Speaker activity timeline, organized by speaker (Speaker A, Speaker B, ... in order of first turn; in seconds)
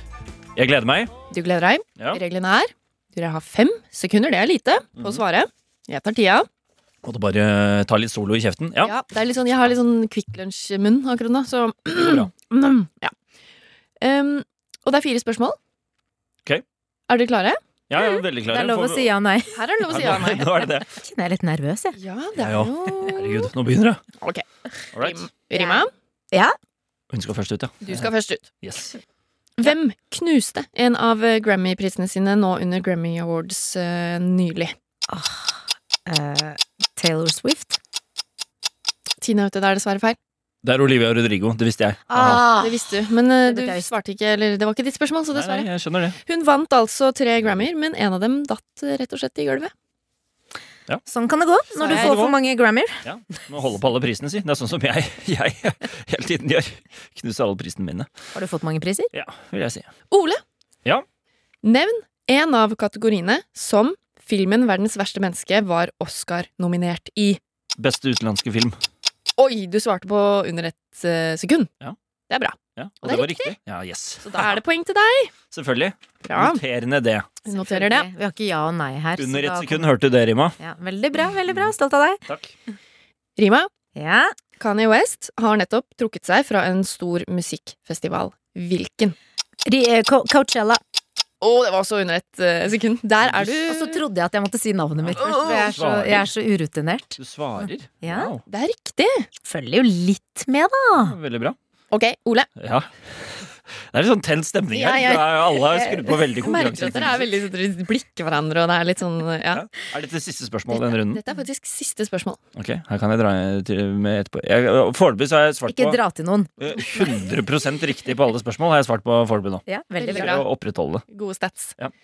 Speaker A: 0.6-1.1, 5.0-5.2, 7.0-8.9, 11.9-12.3, 17.9-19.1, 19.9-20.9, 22.4-24.0, 24.9-25.2, 27.1-29.0, 40.6-42.5, 45.3-46.2, 51.8-52.4, 53.0-58.1, 59.1-59.9, 67.8-68.8, 72.8-74.6, 75.5-77.3, 79.2-80.6, 82.3-82.5, 93.2-93.5, 95.1-96.3, 97.2-98.4, 101.0-101.6, 102.6-107.3, 109.5-111.2, 112.5-116.0, 116.6-121.0
Speaker B: 1.3-6.5, 8.8-13.1, 14.0-15.6, 17.1-17.6, 19.6-20.5, 21.9-23.5, 25.0-25.9, 27.8-28.5, 29.6-34.7, 39.2-40.2, 42.6-45.7, 46.2-49.7, 51.8-52.2, 60.1-60.4, 61.6-67.4, 69.4-71.7, 72.3-73.5, 74.2-75.3, 76.2-76.6, 77.5-78.1, 83.4-83.7, 84.6-89.2, 91.4-94.0, 98.5-99.3, 101.9-102.5, 104.8-105.3, 106.4-109.6, 110.7-112.4, 120.0-120.5, 121.1-121.7
Speaker C: 18.0-19.6, 20.9-22.0, 25.5-26.6, 35.1-37.8, 42.1-42.9, 43.5-43.9, 51.1-53.0, 58.3-59.1, 77.5-79.9, 80.6-82.2, 84.0-84.3, 89.7-90.8, 93.7-98.3, 99.5-101.2, 115.7-116.5, 119.7-120.4